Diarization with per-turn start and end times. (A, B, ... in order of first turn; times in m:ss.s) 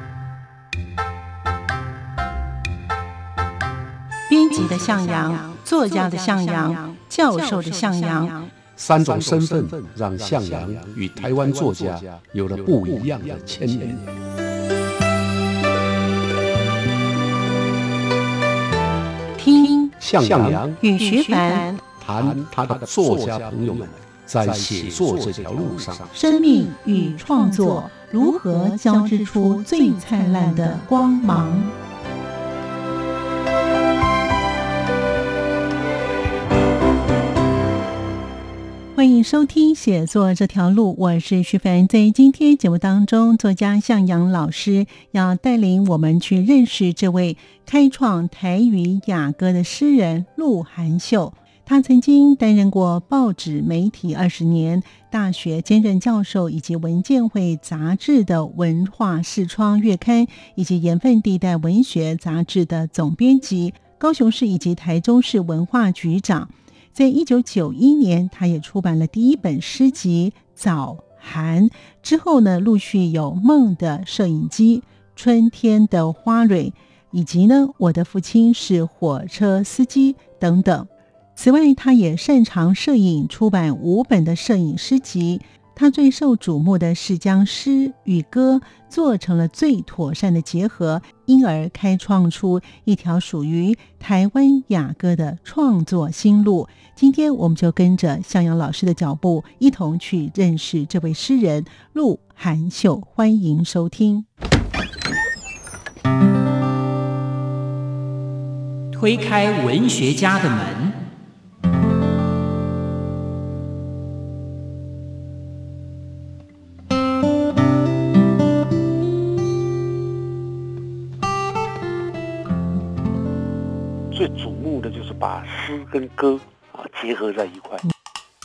0:04.3-0:08.5 A
0:08.8-0:14.2 B
0:19.4-0:20.0 A
0:20.0-0:20.8 B
0:20.8-0:21.8 A
0:22.0-0:26.1 B
0:26.1-0:31.7 A
0:39.0-1:44.3 A
1:48.9-1:51.0 C
2:04.1-2:07.8 D